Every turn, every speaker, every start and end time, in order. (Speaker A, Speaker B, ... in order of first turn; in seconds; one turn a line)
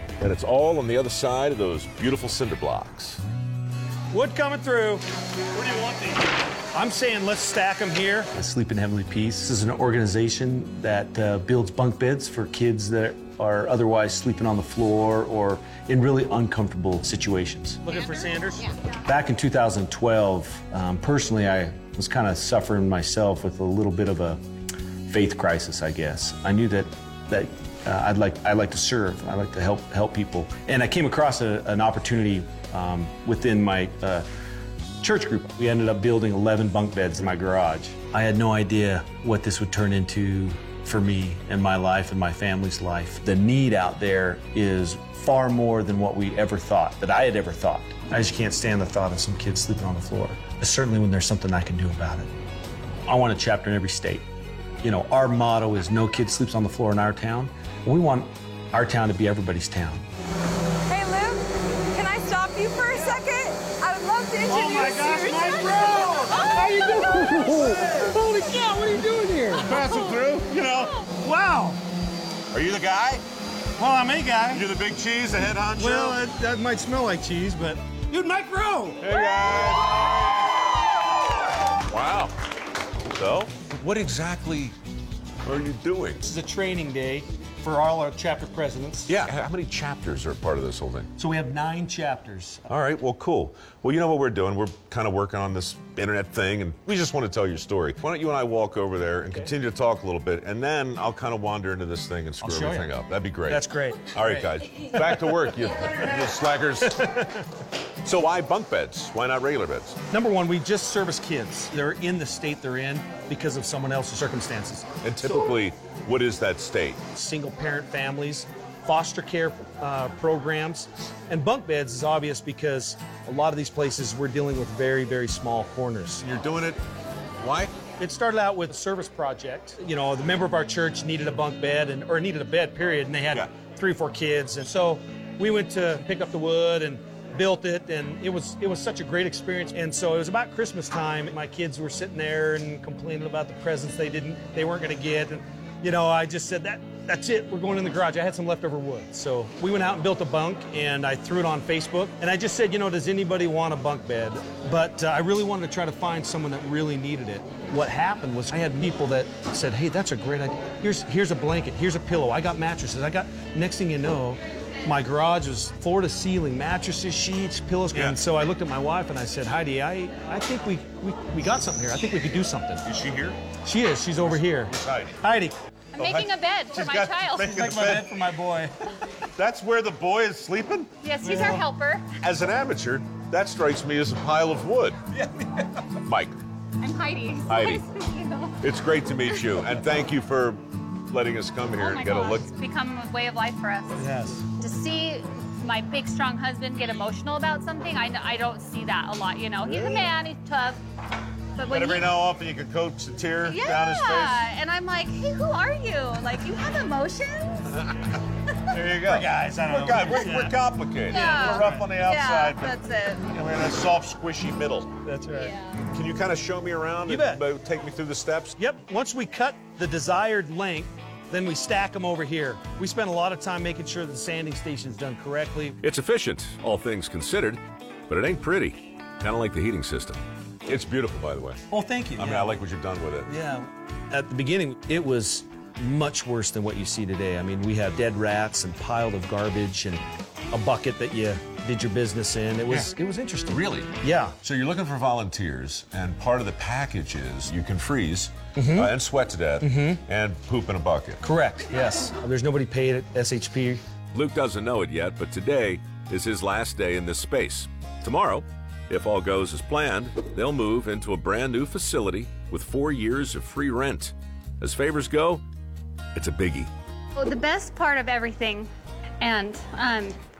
Speaker A: 0.2-3.2
Speaker B: 4.1-5.0
Speaker B: 5.6-6.0
Speaker B: 6.7-8.3
Speaker C: 8.3-17.8
Speaker B: 17.8-18.7
Speaker D: 17.9-19.0
Speaker C: 19.0-24.4
Speaker C: 25.1-34.3
Speaker C: 35.0-52.3
Speaker C: 53.0-54.3
Speaker C: 54.8-60.0
Speaker E: 60.9-68.0
Speaker B: 64.5-69.8
Speaker A: 69.7-71.2
Speaker B: 71.2-71.8
Speaker A: 72.5-73.2
Speaker B: 73.8-74.6
Speaker A: 74.5-76.3
Speaker B: 75.8-79.0
Speaker A: 78.2-80.6
Speaker A: 81.9-82.3
Speaker A: 83.1-84.7
Speaker A: 85.4-86.3
Speaker B: 86.2-89.2
Speaker A: 89.1-91.1
Speaker C: 91.2-92.6
Speaker A: 92.7-107.3
Speaker B: 102.4-102.9
Speaker B: 103.5-105.3
Speaker B: 106.9-107.3
Speaker A: 108.0-110.0
Speaker B: 110.1-114.9
Speaker A: 115.0-117.0
Speaker B: 117.1-126.2
Speaker A: 126.2-126.8
Speaker A: 127.4-127.8
Speaker B: 128.0-172.9
Speaker A: 167.9-168.2
Speaker A: 172.8-173.5
Speaker B: 173.6-175.6
Speaker A: 174.2-175.2
Speaker D: 175.9-177.6
Speaker A: 175.9-178.3
Speaker B: 177.4-178.7
Speaker A: 179.3-180.9
Speaker D: 181.0-182.0
Speaker B: 181.2-181.6
Speaker A: 182.2-185.0
Speaker A: 186.0-186.3
Speaker D: 186.8-188.6
Speaker A: 187.4-188.0
Speaker A: 188.6-192.5
Speaker D: 191.8-200.8
Speaker B: 194.0-194.4
Speaker D: 201.5-202.1
Speaker A: 201.6-204.4
Speaker D: 203.4-207.7
Speaker A: 208.7-215.1
Speaker B: 208.9-210.6
Speaker D: 211.1-213.3
Speaker B: 211.2-211.9
Speaker B: 215.0-215.5
Speaker D: 215.3-215.8
Speaker A: 215.8-218.6
Speaker B: 217.1-217.4
Speaker B: 218.6-225.7
Speaker A: 225.8-233.3
Speaker B: 231.7-232.6
Speaker B: 233.3-244.3
Speaker A: 243.5-251.2
Speaker B: 248.6-248.9
Speaker B: 249.6-250.0
Speaker B: 251.2-253.8
Speaker A: 254.1-265.4
Speaker A: 266.1-266.7
Speaker D: 267.1-270.2